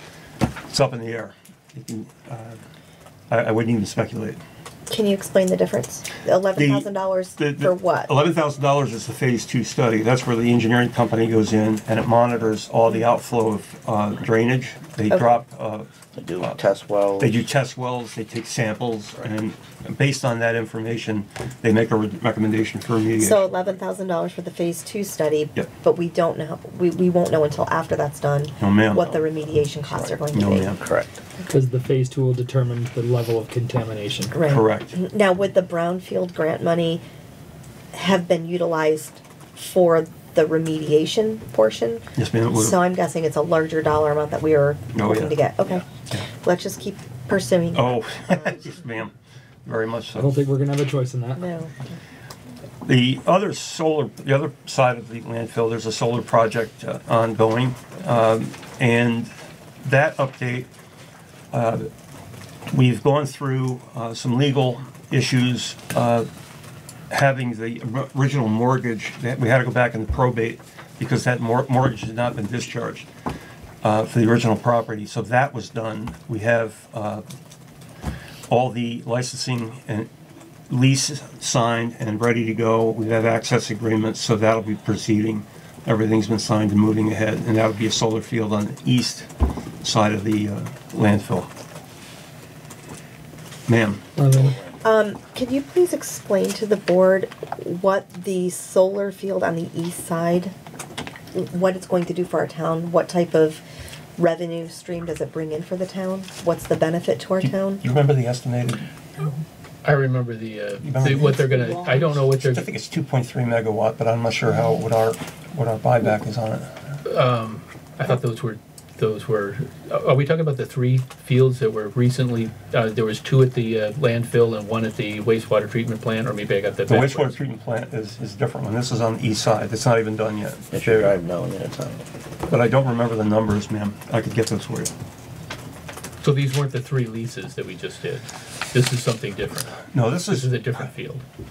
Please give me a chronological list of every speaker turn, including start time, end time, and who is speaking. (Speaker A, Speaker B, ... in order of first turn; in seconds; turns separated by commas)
Speaker A: 0.7-2.6, Speaker A: 3.3-4.4, Speaker B: 4.9-8.1, Speaker A: 6.5-15.9, Speaker B: 15.1-15.4, Speaker C: 16.1-17.4, Speaker A: 17.2-23.5, Speaker B: 23.2-30.7, Speaker A: 28.6-29.1, Speaker C: 29.1-31.2, Speaker A: 30.3-30.8, Speaker D: 31.5-34.3, Speaker B: 34.3-37.0, Speaker A: 34.4-34.9, Speaker B: 37.9-48.7, Speaker A: 42.1-42.8, Speaker A: 44.9-45.4, Speaker A: 45.9-46.3, Speaker A: 47.7-50.3, Speaker D: 50.1-51.4, Speaker B: 51.4-52.0, Speaker A: 52.8-60.7, Speaker A: 61.5-61.9, Speaker A: 62.7-66.3, Speaker A: 67.1-73.1, Speaker A: 73.8-77.2, Speaker A: 78.5-80.1, Speaker A: 80.7-89.3, Speaker A: 89.8-91.5, Speaker A: 93.7-94.0, Speaker D: 94.2-94.5, Speaker B: 94.8-100.5, Speaker B: 101.3-103.6, Speaker B: 104.2-107.8, Speaker A: 107.4-108.9, Speaker E: 109.8-112.7, Speaker A: 110.8-116.8, Speaker E: 117.0-127.4, Speaker A: 126.9-131.2, Speaker C: 130.7-132.0, Speaker A: 132.5-134.9, Speaker E: 136.2-141.2, Speaker A: 139.9-140.9